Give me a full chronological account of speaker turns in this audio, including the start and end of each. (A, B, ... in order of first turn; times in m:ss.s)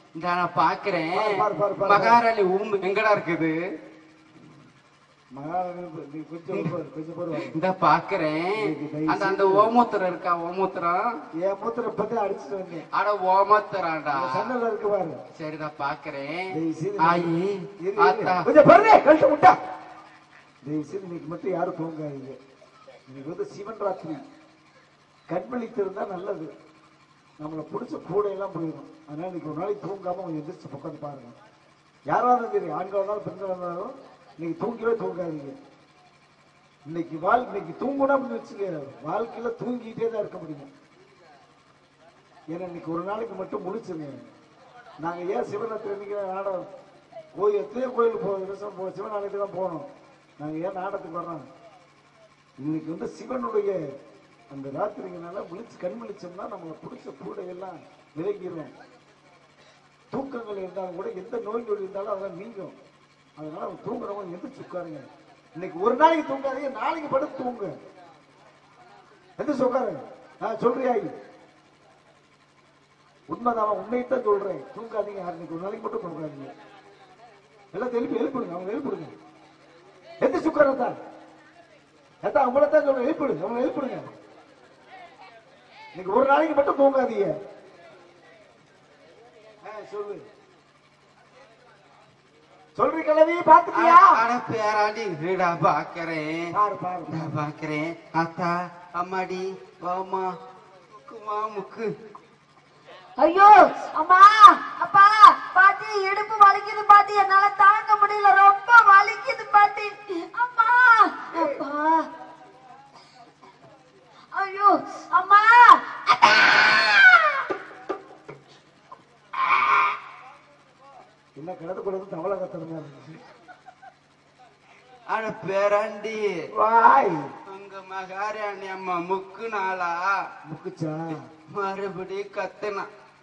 0:00.2-0:03.5 A
0:01.1-0:02.2 B
0:05.3-0:07.6 B
0:07.4-0:11.1 A
0:08.6-0:09.7 B
0:11.4-0:12.8 B
0:12.9-0:14.5 A
0:14.1-0:15.2 B
0:15.4-0:18.5 A
0:16.5-0:19.6 B
0:20.6-0:22.4 B
0:23.1-0:24.2 B
0:25.3-0:26.5 B
0:27.4-0:31.4 B
0:32.1-0:35.6 B
0:36.8-0:40.7 B
0:42.5-0:44.2 B
0:45.0-0:46.6 B
0:47.3-0:49.9 B
0:50.4-0:51.5 B
0:52.6-0:53.8 B
0:54.5-0:58.7 B
1:00.1-1:02.7 B
1:03.4-1:07.7 B
1:09.4-1:11.1 B
1:13.3-1:16.5 B
1:17.7-1:19.1 B
1:20.2-1:21.0 B
1:22.2-1:24.1 B
1:25.9-1:27.3 B
1:29.6-1:30.2 B
1:32.8-1:34.2 B
1:33.7-1:36.5 A
1:36.5-1:37.3 B
1:37.1-1:40.3 A
1:40.9-1:41.9 A
1:43.2-1:52.1 C
1:51.3-1:51.6 B
1:54.3-1:57.4 C
2:01.4-2:03.2 B
2:05.1-2:06.3 A
2:06.5-2:07.3 B
2:07.5-2:10.2 A
2:10.4-2:11.3 B
2:11.5-2:12.9 A